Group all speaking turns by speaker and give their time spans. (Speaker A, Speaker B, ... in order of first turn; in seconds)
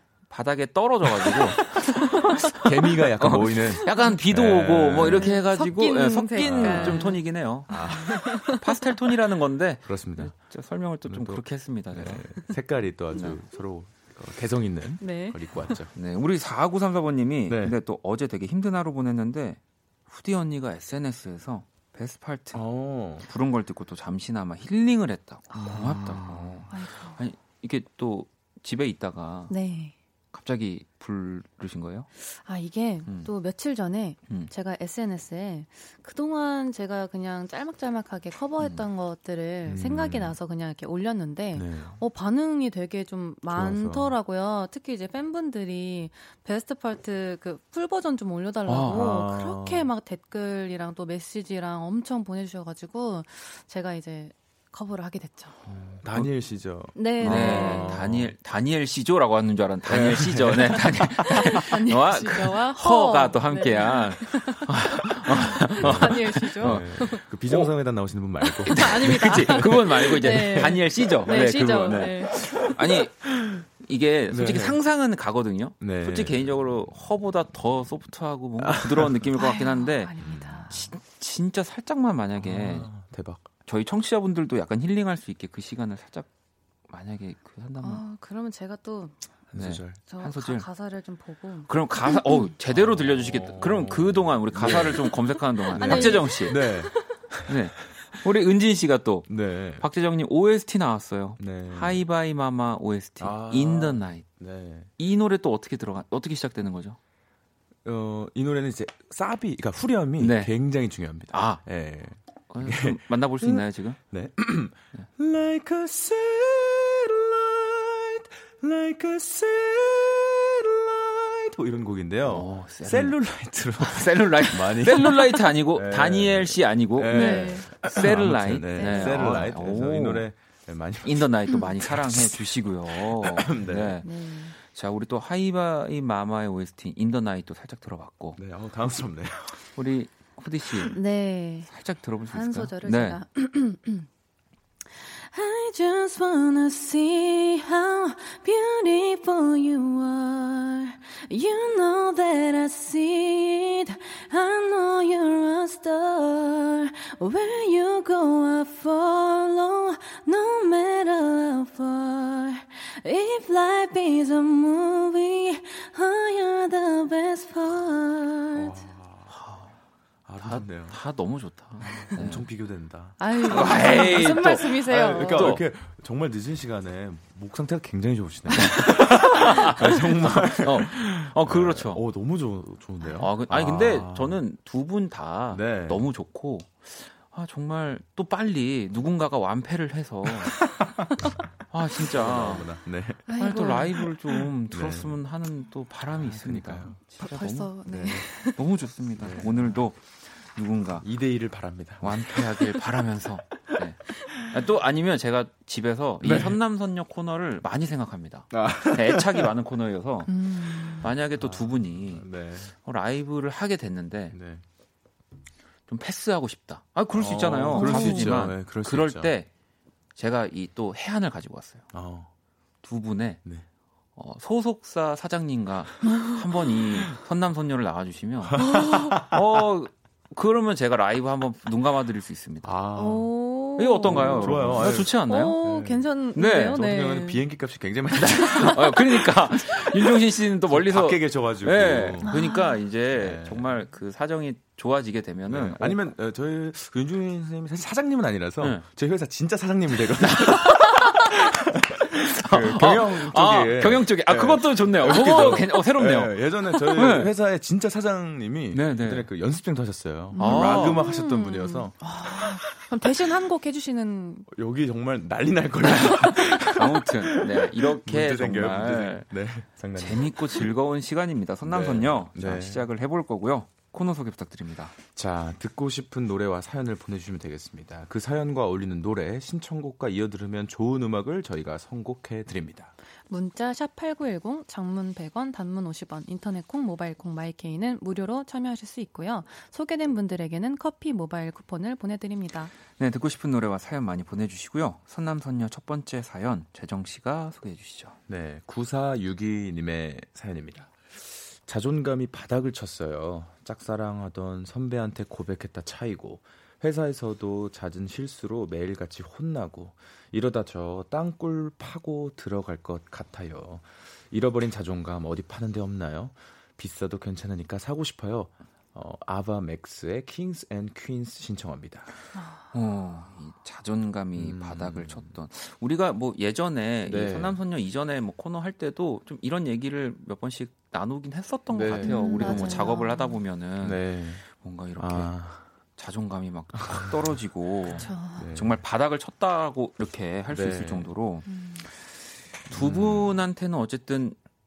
Speaker A: 0.3-12.3, 13.1-13.4, 15.9-22.7, 23.2-29.6, 30.3-32.1, 33.0-33.3, 38.6-38.8, 48.7-49.0, 57.1-67.7, 68.7-73.2, 73.8-80.1, 80.7-83.0, 83.6-86.3, 86.9-88.0, 89.6-90.7, 91.7-96.6, 97.5-104.4, 105.0-107.0, 110.2-110.5, 111.3-111.7, 112.5-114.0, 122.3-123.2, 123.8-130.3, 131.0-138.4, 139.7-141.0, 141.7-143.2, 169.3-169.8, 170.4-172.4, 173.4-175.6, 178.6-182.0, 183.2-190.6, 191.7-192.8, 193.3-197.8, 198.4-201.1, 202.0-210.3, 211.0-214.4, 215.9-219.5, 220.2-221.9, 222.8-223.4, 224.2-228.8, 229.3-232.7, 233.8-235.6, 236.3-236.8, 238.2-246.0, 250.2-251.2, 252.4-257.3, 258.7-259.3, 260.4-261.1, 265.8-269.3, 270.0-275.0, 293.0-298.2, 322.7-342.1, 342.7-344.4
Speaker B: 1.2-1.9, 2.5-5.4, 6.4-8.2, 9.8-10.4, 11.1-15.9, 17.5-17.8, 22.5-23.3, 25.6-26.7, 39.7-40.4, 41.5-42.0, 43.5-44.1, 48.8-49.9, 55.7-58.4, 59.9-61.5, 65.8-69.4, 70.3-73.7, 74.3-74.8, 75.8-76.9, 78.6-79.3, 80.2-80.9, 82.4-83.5, 89.5-90.0, 92.7-97.8, 99.3-99.8, 101.4-102.0, 103.2-104.9, 107.8-132.4, 133.1-134.0, 138.4-139.7, 168.6-169.3, 170.2-171.0, 172.1-184.4, 185.5-186.0, 190.4-193.3, 194.7-195.2, 196.1-197.2, 197.9-198.3, 199.2-199.9, 201.0-202.9, 206.2-206.6, 208.5-209.5, 210.8-212.7, 214.3-214.6, 217.1-219.3, 221.9-222.3, 228.5-229.4, 232.6-233.5, 234.1-239.0, 240.7-242.4, 243.1-243.7, 245.5-262.8, 264.5-270.7, 271.6-272.9, 275.1-282.9, 298.3-322.1, 324.4-325.3, 327.1-327.6, 331.7-332.9, 333.8-335.7, 336.8-337.3, 338.3-338.8, 340.5-341.1, 342.7-343.4
Speaker C: 2.1-2.6, 3.8-4.1, 5.1-8.9, 15.0-15.8, 26.7-27.2, 29.5-29.9, 32.2-55.6, 57.0-58.0, 61.5-64.7, 65.3-67.3, 68.5-72.4, 79.3-80.9, 87.8-89.5, 90.0-92.5, 95.8-97.2, 127.1-127.8, 128.7-129.4, 134.0-134.6, 140.9-141.7, 142.3-144.1, 144.9-168.8, 173.2-175.6, 193.3-194.1, 197.1-198.6, 210.3-211.1, 217.7-218.5, 228.7-229.1, 232.9-237.4, 238.4-238.7, 242.2-242.8, 260.4-264.5, 283.3-292.7, 322.4-322.6, 332.0-333.4, 338.0-338.5, 341.5-341.9